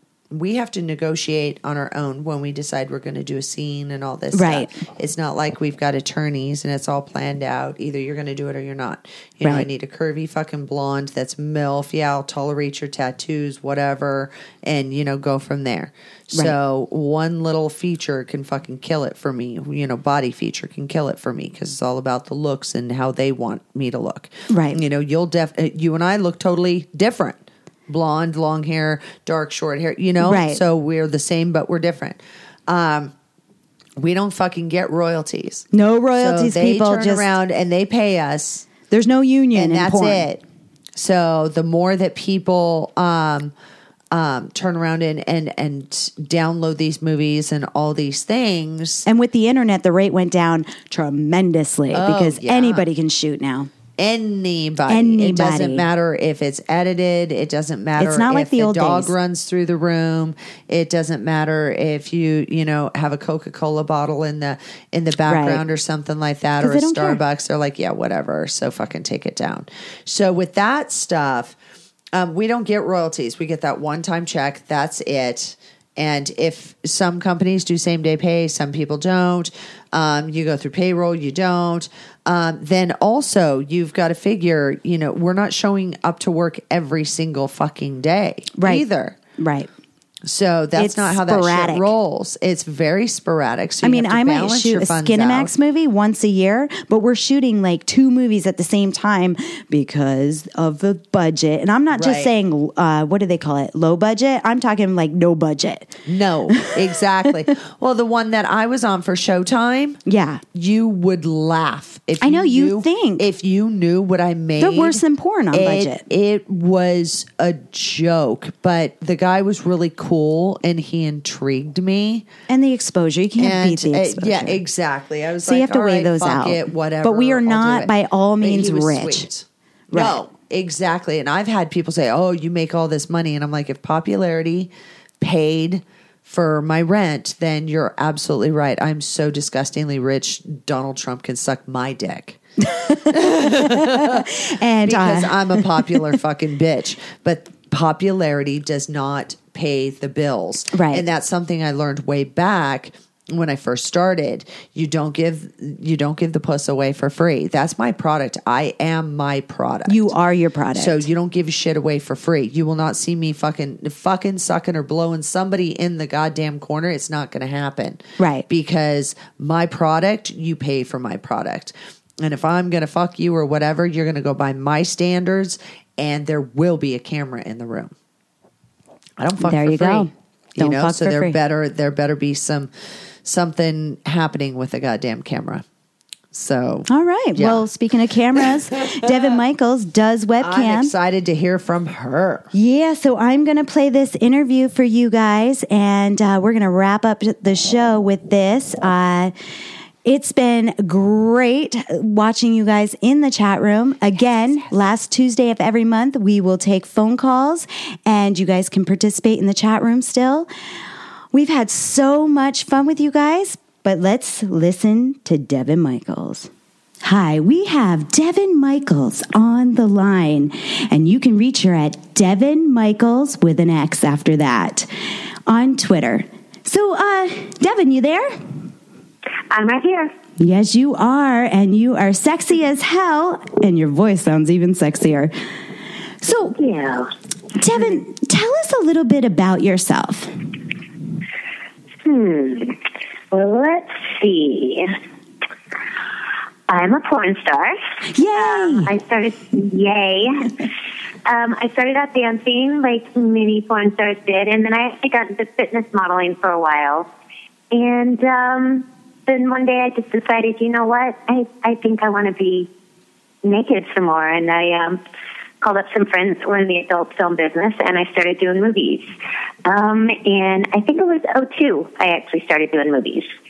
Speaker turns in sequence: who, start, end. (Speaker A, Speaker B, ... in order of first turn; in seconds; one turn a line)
Speaker A: 0.3-33.1
Speaker B: 4.3-4.8
Speaker B: 24.5-24.8
Speaker B: 30.2-30.6
Speaker A: 34.0-38.7
Speaker B: 35.7-37.3
Speaker B: 38.9-40.3
Speaker A: 39.5-40.4
Speaker A: 41.0-43.5
Speaker A: 44.1-49.1
Speaker B: 49.0-53.7
Speaker A: 51.9-52.9
Speaker A: 54.0-71.5
Speaker B: 54.9-55.8
Speaker B: 58.0-59.1
Speaker B: 65.3-65.6
Speaker B: 66.6-67.2
Speaker A: 72.1-89.2
Speaker B: 88.6-88.8
Speaker B: 89.4-89.7
Speaker A: 90.2-95.5
Speaker B: 90.7-91.9
Speaker B: 93.8-106.0
Speaker A: 101.9-102.3
Speaker A: 106.0-110.0
Speaker B: 106.5-106.8
Speaker B: 110.1-110.4
Speaker A: 110.5-115.0
Speaker B: 112.2-113.3
Speaker B: 114.6-116.0
Speaker A: 115.5-122.2
Speaker B: 122.5-124.6
Speaker A: 123.4-127.9
Speaker B: 125.4-129.3
Speaker A: 128.4-142.4
Speaker B: 129.9-130.2
Speaker B: 142.6-146.1
Speaker A: 143.1-144.3
Speaker A: 144.8-160.1
Speaker B: 150.7-151.0
Speaker B: 159.9-161.1
Speaker A: 160.7-177.9
Speaker B: 168.2-168.4
Speaker A: 179.2-182.7
Speaker B: 179.4-181.4
Speaker A: 183.2-185.6
Speaker A: 186.3-187.6
Speaker B: 186.9-190.9
Speaker A: 190.4-192.5
Speaker B: 192.5-199.3
Speaker B: 200.0-210.5
Speaker A: 204.4-204.7
Speaker B: 211.3-216.5
Speaker B: 217.0-224.9
Speaker B: 225.5-228.3
Speaker C: 229.5-230.1
Speaker B: 230.4-235.3
Speaker B: 236.2-236.5
Speaker C: 236.5-237.1
Speaker B: 237.6-240.3
Speaker C: 242.0-242.8
Speaker C: 243.3-244.9
Speaker C: 246.7-247.8
Speaker B: 248.1-248.9
Speaker C: 248.3-250.7
Speaker C: 251.2-257.1
Speaker C: 257.7-262.7
Speaker C: 263.4-265.0
Speaker C: 265.6-269.1
Speaker C: 269.6-273.3